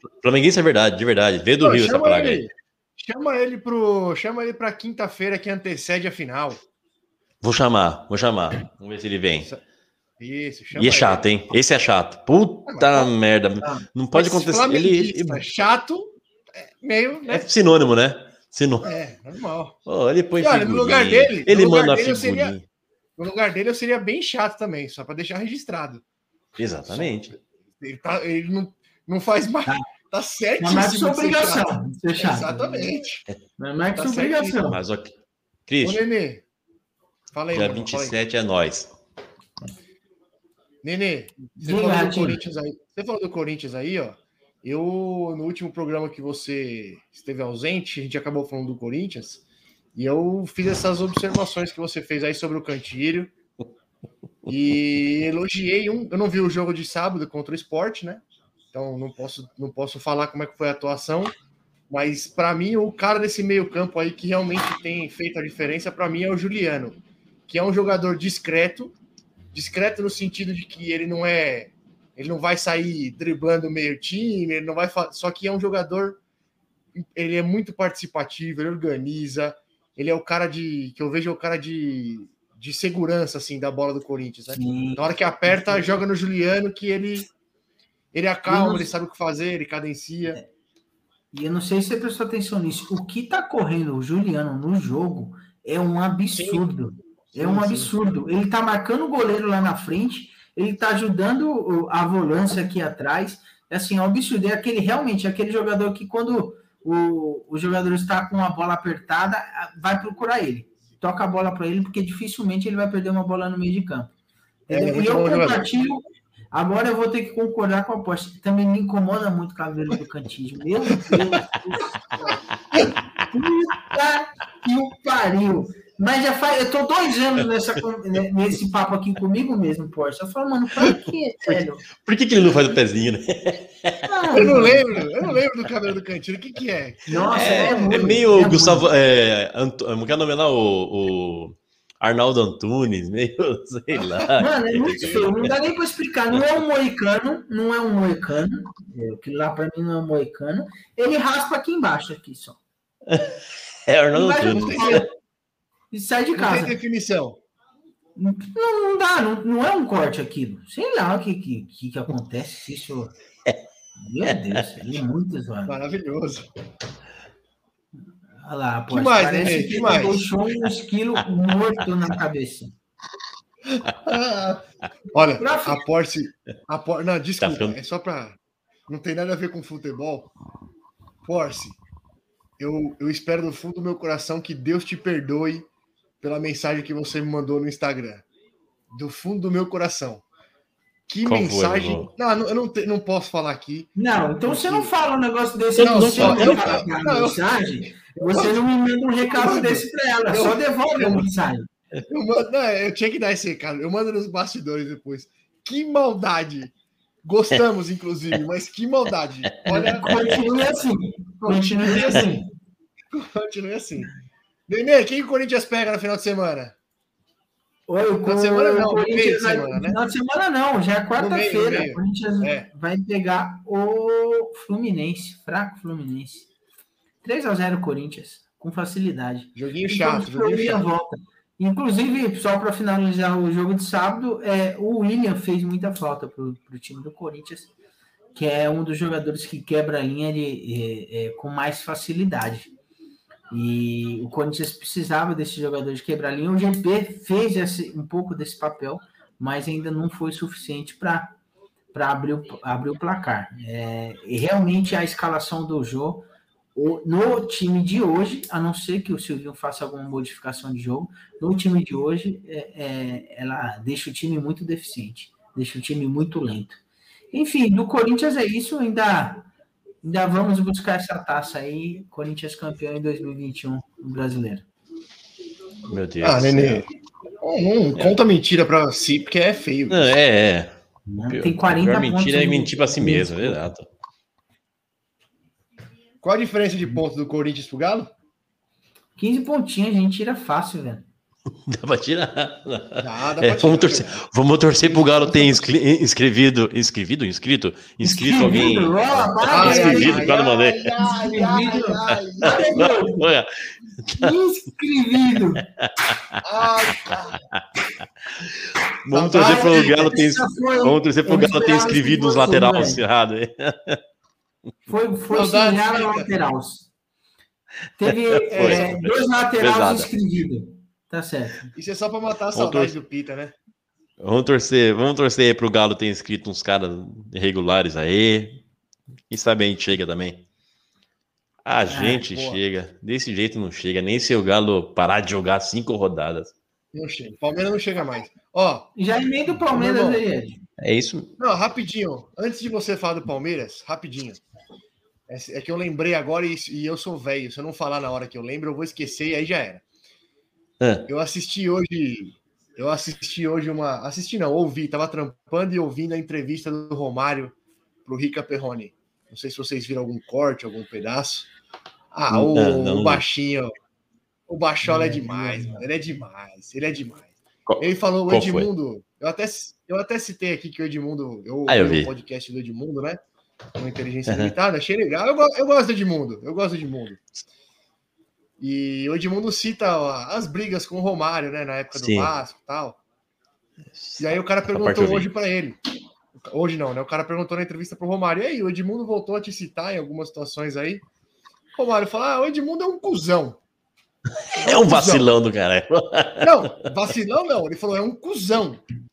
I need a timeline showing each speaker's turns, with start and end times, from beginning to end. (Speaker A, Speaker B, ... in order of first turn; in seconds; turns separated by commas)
Speaker A: 0.2-2.4, Speaker B: 1.6-6.6, Speaker A: 7.4-9.5, Speaker B: 10.2-11.2, Speaker A: 10.7-15.4, Speaker B: 12.7-13.1, Speaker B: 14.1-17.5, Speaker A: 17.3-18.9, Speaker B: 18.8-19.8, Speaker A: 19.9-22.6, Speaker B: 20.4-22.6, Speaker B: 23.2-26.0, Speaker A: 26.6-27.4, Speaker B: 26.9-33.2, Speaker C: 30.6-32.9, Speaker C: 33.6-34.8, Speaker B: 34.0-34.6, Speaker A: 34.6-35.1, Speaker A: 35.7-36.0, Speaker B: 35.8-36.4, Speaker B: 37.3-38.2, Speaker A: 37.5-38.9, Speaker B: 40.8-49.4, Speaker C: 41.5-42.4, Speaker B: 50.0-53.3, Speaker B: 54.5-61.4, Speaker B: 61.9-69.0, Speaker B: 69.5-76.2, Speaker B: 77.0-87.3, Speaker C: 84.5-86.0, Speaker B: 88.1-90.4, Speaker C: 88.5-88.9, Speaker C: 91.3-114.1, Speaker B: 96.3-96.6, Speaker B: 97.3-97.9, Speaker C: 114.7-121.9, Speaker B: 114.7-115.7, Speaker B: 122.3-122.9, Speaker C: 123.3-131.8, Speaker A: 131.5-134.5, Speaker C: 134.1-135.1, Speaker B: 134.3-138.2, Speaker C: 137.1-138.9, Speaker A: 137.3-145.5, Speaker B: 143.9-144.3, Speaker C: 144.4-152.6, Speaker B: 144.9-145.3, Speaker A: 153.9-155.0, Speaker C: 154.1-155.1, Speaker B: 154.5-155.1, Speaker C: 155.9-156.8, Speaker B: 156.3-157.4, Speaker C: 158.2-163.1, Speaker C: 164.0-165.8, Speaker B: 165.7-166.5, Speaker C: 168.4-172.8, Speaker B: 168.9-170.3, Speaker B: 174.0-180.3, Speaker C: 175.2-175.8, Speaker A: 177.4-177.8, Speaker B: 181.2-181.8, Speaker B: 182.6-185.7, Speaker B: 186.2-188.3, Speaker B: 188.9-190.2, Speaker B: 191.1-193.9, Speaker A: 191.2-192.1, Speaker C: 194.0-201.7, Speaker B: 194.4-194.9, Speaker B: 195.8-198.6, Speaker A: 196.0-196.8, Speaker B: 199.2-201.2, Speaker B: 202.1-210.4, Speaker C: 209.7-212.5, Speaker B: 211.4-212.4, Speaker B: 213.1-214.1, Speaker B: 214.7-216.8, Speaker C: 217.9-226.5, Speaker B: 218.2-220.0, Speaker B: 221.2-222.7, Speaker C: 227.2-237.7, Speaker B: 229.6-230.9, Speaker C: 238.3-242.7, Speaker C: 243.5-251.4, Speaker C: 251.9-266.8, Speaker C: 267.3-269.5, Speaker C: 270.0-274.7, Speaker A: 275.9-276.9, Speaker B: 276.2-276.9, Speaker B: 277.4-280.1, Speaker A: 279.9-280.8, Speaker C: 281.1-283.7, Speaker A: 281.3-283.9, Speaker B: 286.2-288.1, Speaker C: 289.2-291.1, Speaker A: 291.7-301.0, Speaker B: 293.0-294.2, Speaker B: 294.8-295.7, Speaker C: 298.0-300.4, Speaker B: 299.4-302.9, Speaker C: 301.0-303.2, Speaker A: 302.4-304.4, Speaker C: 304.2-305.7, Speaker B: 306.4-307.4, Speaker A: 309.0-314.0, Speaker B: 309.1-310.2, Speaker C: 309.3-313.0, Speaker C: 314.9-316.9, Speaker B: 315.3-316.3, Speaker C: 318.0-321.7, Speaker A: 318.5-320.1, Speaker B: 318.5-319.1, Speaker B: 321.8-323.6, Speaker A: 322.6-322.9, Speaker A: 324.2-328.6, Speaker A: 329.3-330.4, Speaker A: 331.7-336.5, Speaker C: 331.9-332.2, Speaker B: 332.2-332.6, Speaker B: 336.9-338.9, Speaker C: 339.0-340.6, Speaker B: 339.5-340.2, Speaker A: 340.8-341.3, Speaker B: 341.4-344.4, Speaker B: 345.3-349.8, Speaker A: 350.8-351.1, Speaker B: 351.1-361.5, Speaker B: 362.1-363.7, Speaker A: 362.3-363.2, Speaker B: 364.5-373.2, Speaker C: 364.8-365.9, Speaker A: 367.7-368.7, Speaker A: 371.7-372.1, Speaker B: 373.8-377.2, Speaker A: 374.3-374.5, Speaker B: 378.6-383.0, Speaker A: 381.9-382.3, Speaker A: 383.9-385.3, Speaker B: 384.2-385.8, Speaker B: 386.4-391.1, Speaker B: 391.8-393.6, Speaker A: 394.6-396.6, Speaker B: 394.6-395.3, Speaker B: 396.4-398.8